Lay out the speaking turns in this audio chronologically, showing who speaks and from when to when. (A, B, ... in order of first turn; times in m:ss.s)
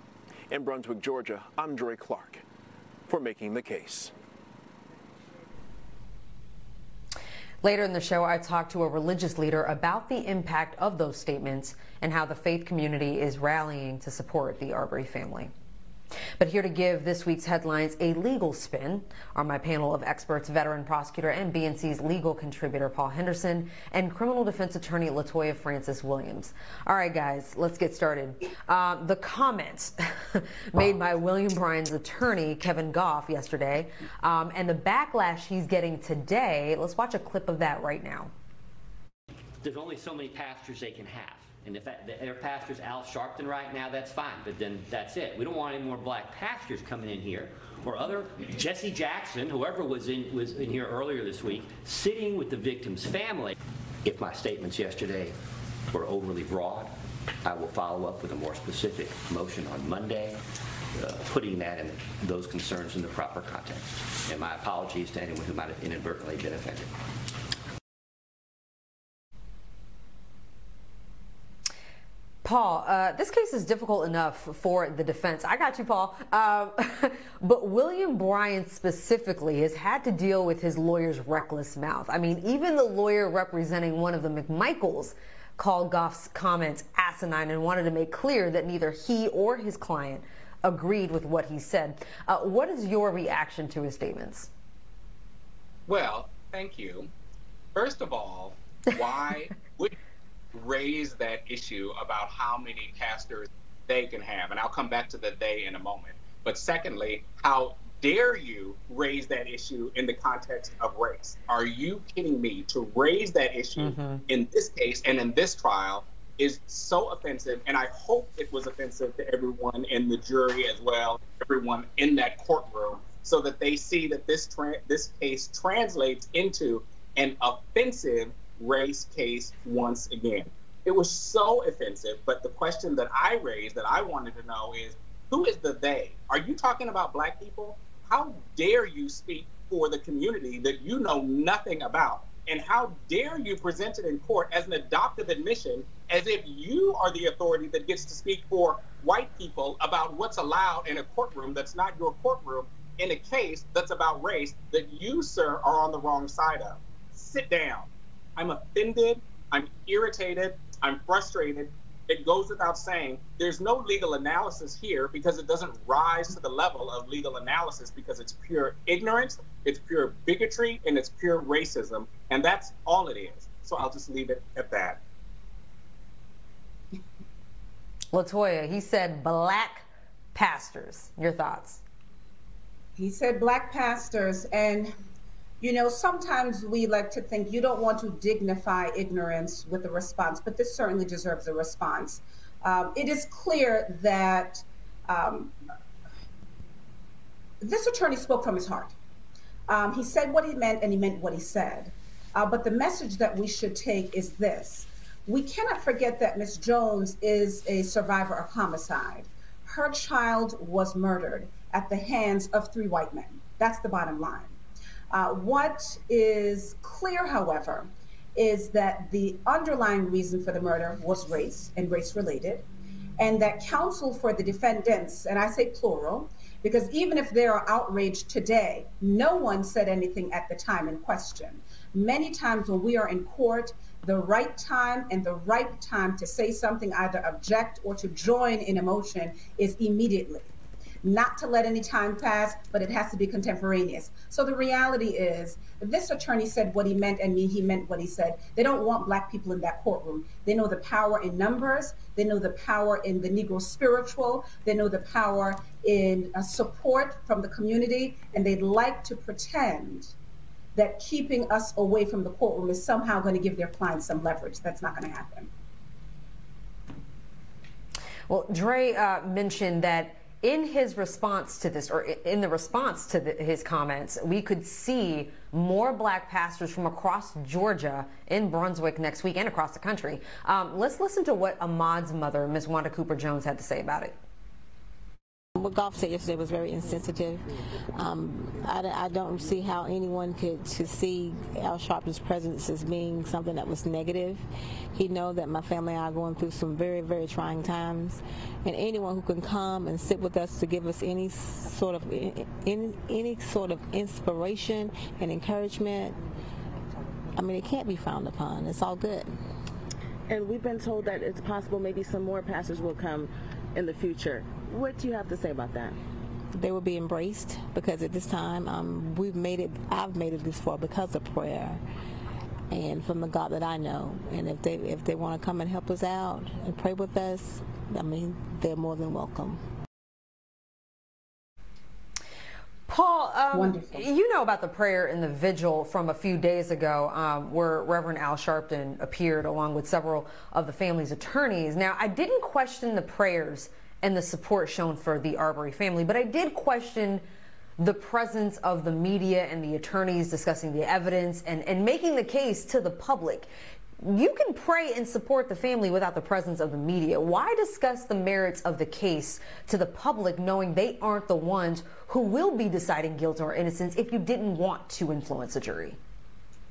0:00.5-0:02.4 A
0:03.1-0:04.1 A
0:07.6-0:15.5 B
0:16.4-0:38.3 B
0:39.6-0:55.4 C
0:55.9-0:56.9 C
0:57.4-1:00.4 C
1:01.0-1:06.9 C
1:12.4-1:34.5 B
1:35.9-1:37.1 D
1:37.8-1:40.0 D
1:40.5-2:55.0 D
1:53.8-1:54.2 B
2:58.1-3:01.8 B
3:03.0-3:04.9 E
3:05.6-3:15.6 E
3:17.6-3:19.0 E
3:19.7-3:34.6 E
3:35.1-3:42.7 E
3:43.2-4:00.5 E
4:01.0-4:20.1 E
4:20.8-4:25.5 E
4:28.3-4:44.1 B
4:45.6-4:54.4 F
4:54.9-5:06.2 F
5:07.4-5:09.3 F
5:10.3-5:16.0 G
5:16.6-5:21.8 F
5:22.7-5:29.6 F
5:32.9-5:47.2 B
5:33.5-5:34.1 E
5:47.8-5:53.5 B
5:54.0-6:06.0 B